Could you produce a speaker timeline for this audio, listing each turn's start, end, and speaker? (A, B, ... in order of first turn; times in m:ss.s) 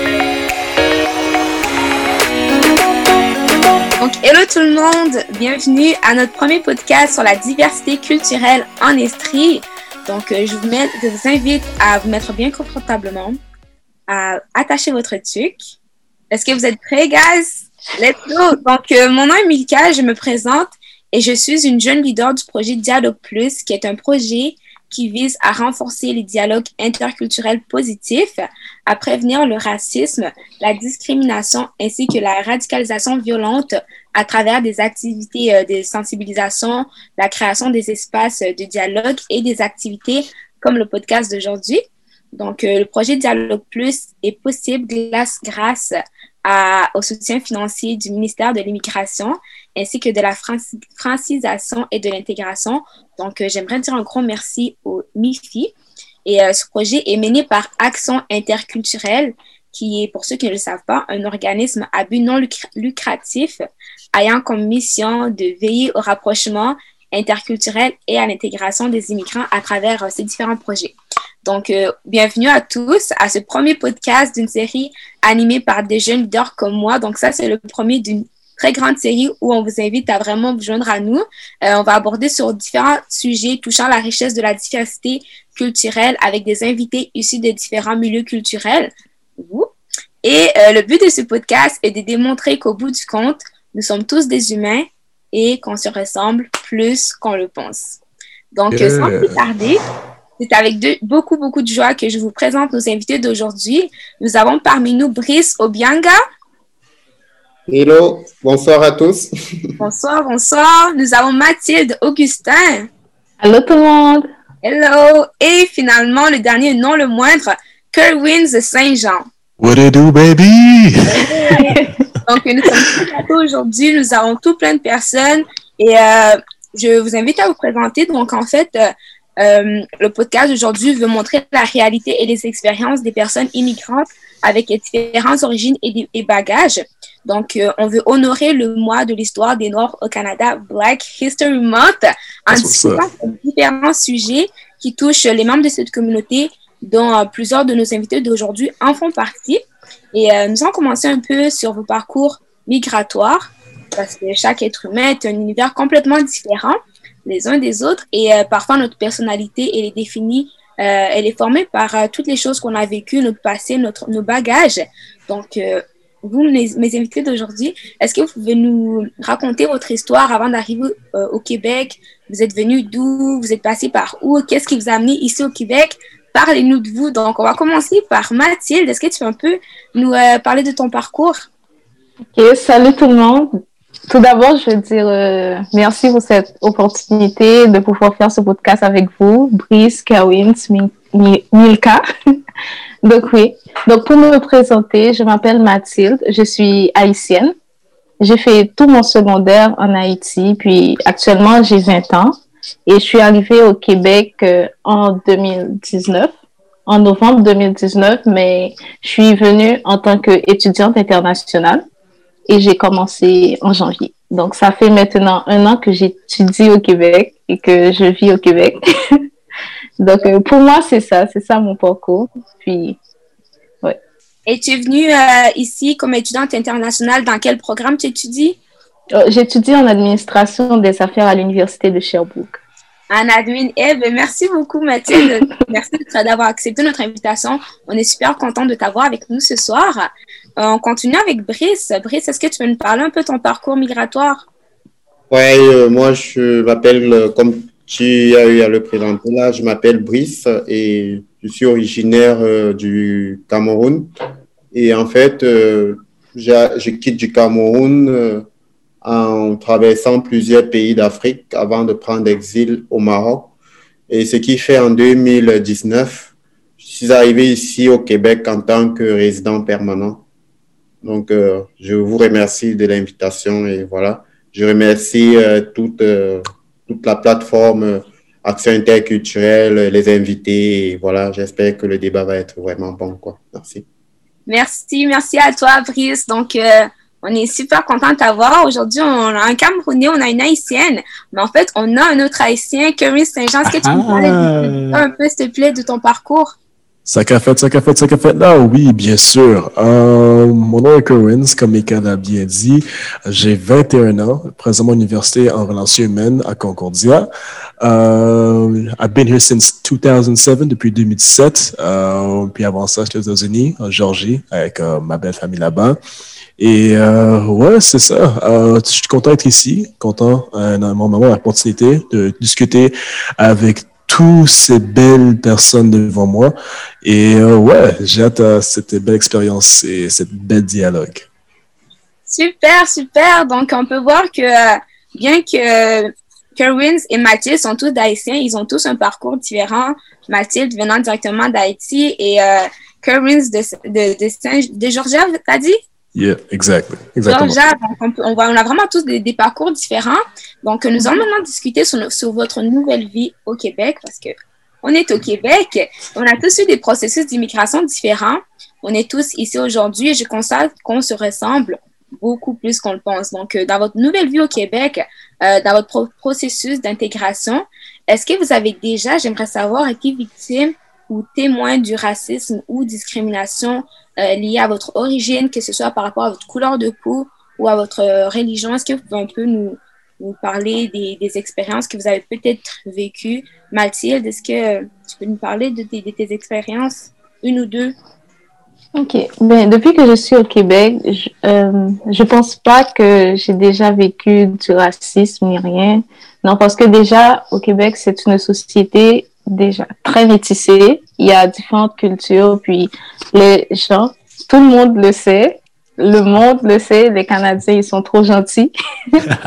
0:04.0-0:13.4 A
0:14.1-0:15.6 A
0:16.3-0:41.8 A
0:42.3-0:45.9 A
0:46.4-0:55.7 A
0:56.2-1:03.6 A
1:04.1-1:29.7 A
1:30.2-1:38.0 A
1:38.5-1:39.8 A
1:38.7-1:39.4 B
1:40.4-1:46.2 A
1:47.7-1:49.3 C
1:49.8-1:52.9 A
1:53.4-1:54.2 D
1:54.6-1:59.2 A
1:59.6-2:01.3 B
2:01.1-2:29.6 A
2:01.5-2:01.9 D
2:22.5-2:23.0 B
2:30.1-3:01.5 A
3:02.3-3:03.5 D
3:04.1-3:12.0 D
3:13.0-3:17.5 D
3:18.2-3:22.3 D
3:22.8-3:26.3 D
3:26.9-3:31.8 D
3:32.5-3:39.2 D
3:40.0-3:43.0 D
3:44.4-3:48.6 A
3:49.2-3:52.6 D
3:53.1-4:04.4 A
4:05.3-4:14.1 C
4:14.7-4:18.4 C
4:19.0-4:23.5 C
4:24.1-4:30.2 C
4:31.0-4:43.8 C
4:44.5-4:56.6 A
4:53.6-4:55.0 B
4:57.1-5:07.3 B
5:07.8-5:16.0 B
5:16.6-5:31.3 B
5:32.3-5:45.8 A
5:46.1-5:47.6 B
5:47.3-5:54.3 A
5:54.8-6:27.9 A
6:29.0-6:49.3 D